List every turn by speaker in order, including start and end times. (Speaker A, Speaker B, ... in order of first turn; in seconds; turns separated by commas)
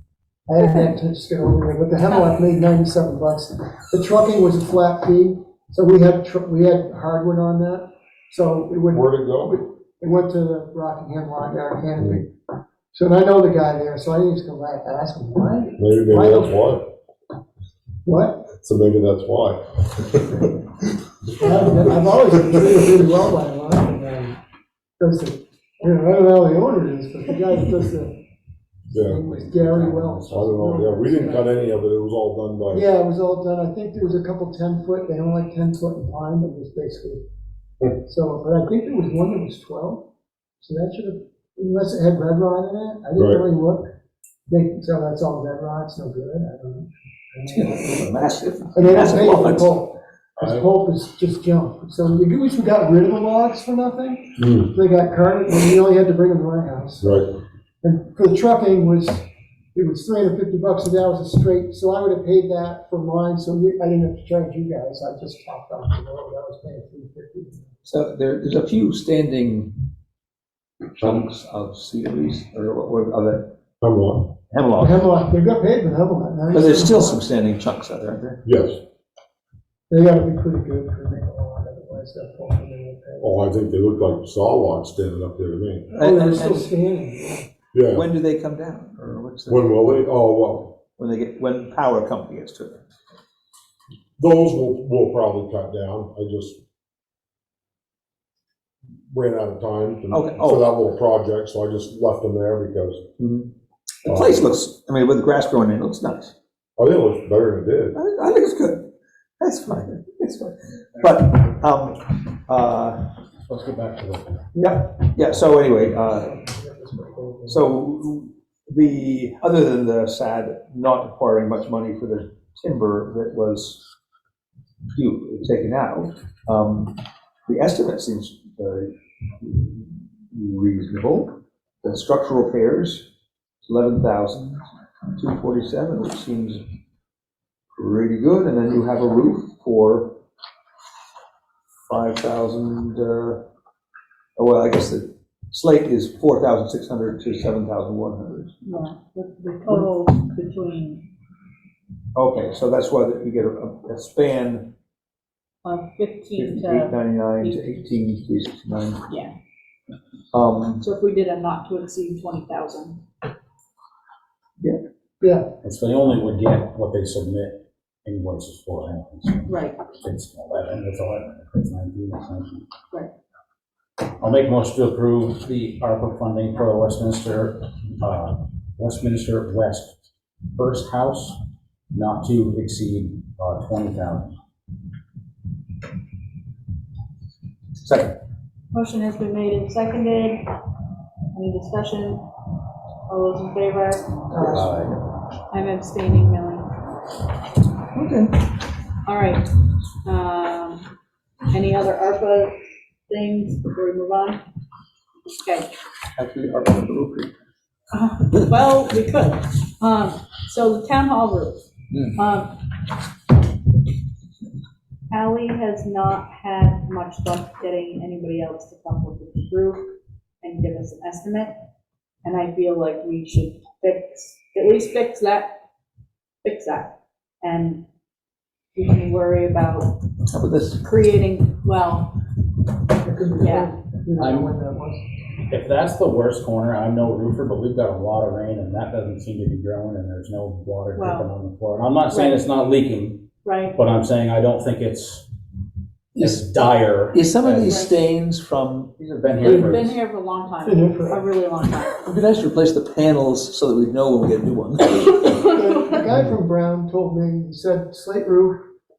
Speaker A: 0.5-12.3, Speaker B: 8.9-9.6, Speaker A: 12.9-16.6, Speaker B: 15.8-16.9, Speaker A: 18.1-18.5, Speaker B: 18.6-20.6, Speaker A: 21.4-24.4, Speaker B: 21.4-21.9, Speaker A: 25.0-28.1, Speaker B: 28.9-29.2, Speaker A: 29.0-31.5, Speaker C: 29.2-30.4, Speaker B: 30.3-32.9, Speaker A: 32.7-37.2, Speaker A: 38.0-40.1, Speaker A: 40.6-43.9, Speaker B: 43.2-43.4, Speaker A: 44.5-48.1, Speaker D: 47.5-49.7, Speaker A: 48.7-57.3, Speaker B: 50.4-50.7, Speaker B: 54.4-54.7, Speaker B: 57.0-57.3, Speaker A: 57.8-67.8, Speaker D: 67.8-69.7, Speaker D: 70.9-73.5, Speaker B: 71.0-71.3, Speaker B: 73.8-74.3, Speaker D: 74.5-75.0, Speaker A: 74.8-77.2, Speaker D: 76.5-78.4, Speaker B: 78.5-78.8, Speaker A: 79.9-83.4, Speaker B: 83.2-85.9, Speaker D: 85.9-86.7, Speaker A: 86.0-87.5, Speaker B: 87.7-88.0, Speaker D: 87.9-89.8, Speaker B: 89.5-90.8, Speaker D: 91.0-92.8, Speaker B: 94.2-96.6, Speaker B: 99.1-103.1, Speaker D: 100.1-100.7, Speaker D: 103.2-103.5, Speaker D: 104.0-106.3, Speaker B: 104.1-104.5, Speaker B: 106.8-108.0, Speaker D: 107.9-108.9, Speaker D: 109.4-113.0, Speaker C: 113.5-114.5, Speaker A: 114.5-114.8, Speaker D: 114.6-116.3, Speaker A: 116.1-117.8, Speaker D: 117.5-123.8, Speaker D: 124.9-131.3, Speaker D: 131.8-133.1, Speaker D: 133.7-134.6, Speaker D: 135.2-136.6, Speaker D: 137.8-140.2, Speaker D: 141.9-143.4, Speaker D: 144.4-148.5, Speaker E: 148.6-151.1, Speaker D: 152.2-154.7, Speaker E: 155.6-157.8, Speaker D: 156.3-159.0, Speaker D: 160.3-160.8, Speaker E: 160.8-163.0, Speaker A: 165.2-165.5, Speaker C: 165.6-172.7, Speaker E: 169.5-169.8, Speaker C: 174.2-179.9, Speaker C: 180.5-181.4, Speaker C: 181.9-184.3, Speaker D: 187.8-188.2, Speaker E: 188.7-190.4, Speaker E: 191.3-192.2, Speaker E: 193.1-194.5, Speaker A: 194.3-194.9, Speaker D: 194.4-195.0, Speaker E: 195.5-196.7, Speaker D: 197.9-198.4, Speaker E: 199.1-199.5, Speaker E: 200.0-200.8, Speaker E: 201.5-202.6, Speaker E: 203.1-204.4, Speaker E: 205.3-205.7, Speaker D: 206.2-207.3, Speaker E: 207.9-212.6, Speaker D: 211.9-212.2, Speaker E: 215.1-221.6, Speaker E: 222.2-225.5, Speaker E: 226.4-227.8, Speaker E: 228.8-230.0, Speaker D: 230.3-230.8, Speaker E: 230.8-232.1, Speaker A: 233.0-235.0, Speaker E: 233.4-233.7, Speaker C: 234.2-234.5, Speaker C: 235.5-243.2, Speaker E: 240.9-241.3, Speaker E: 242.1-242.4, Speaker E: 243.4-243.8, Speaker C: 243.8-245.3, Speaker D: 246.2-248.9, Speaker C: 246.2-247.9, Speaker E: 247.6-247.9, Speaker C: 248.9-250.0, Speaker E: 249.4-252.0, Speaker A: 250.6-251.3, Speaker D: 252.0-255.3, Speaker E: 255.0-256.1, Speaker A: 255.4-258.6